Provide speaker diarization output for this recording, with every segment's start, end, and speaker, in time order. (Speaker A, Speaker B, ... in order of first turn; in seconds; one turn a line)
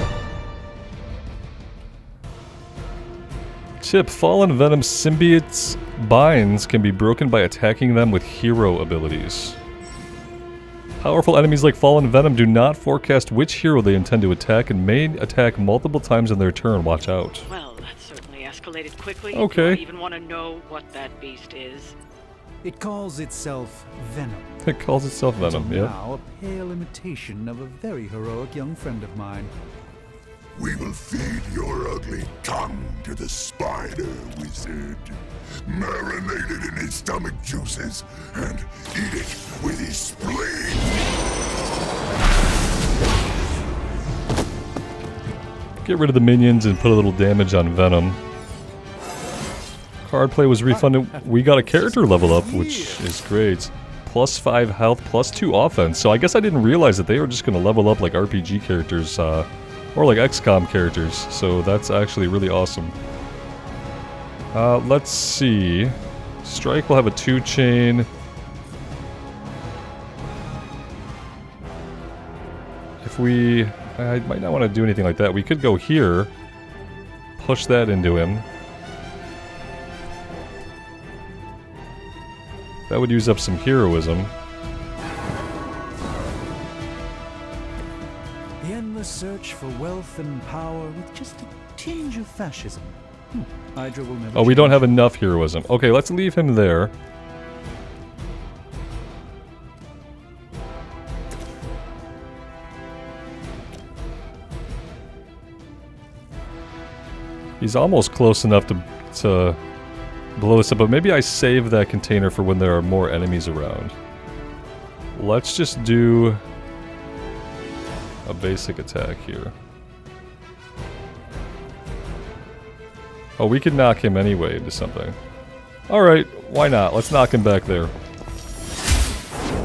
Speaker A: 3.8-9.6
Speaker A: 11.0-17.5
Speaker B: 17.5-21.9
Speaker A: 19.3-19.8
Speaker C: 22.6-24.6
Speaker A: 24.6-25.9
Speaker C: 25.4-29.5
Speaker D: 30.5-41.0
Speaker A: 45.8-48.2
Speaker A: 50.0-62.9
Speaker C: 50.7-53.0
Speaker A: 64.5-68.1
Speaker A: 73.0-76.3
Speaker A: 77.4-78.5
Speaker A: 82.9-84.3
Speaker C: 88.6-95.0
Speaker A: 94.3-96.9
Speaker A: 107.6-109.6
Speaker A: 110.3-114.0
Speaker A: 115.1-116.4
Speaker A: 118.2-119.5
Speaker A: 123.4-125.2
Speaker A: 125.9-127.9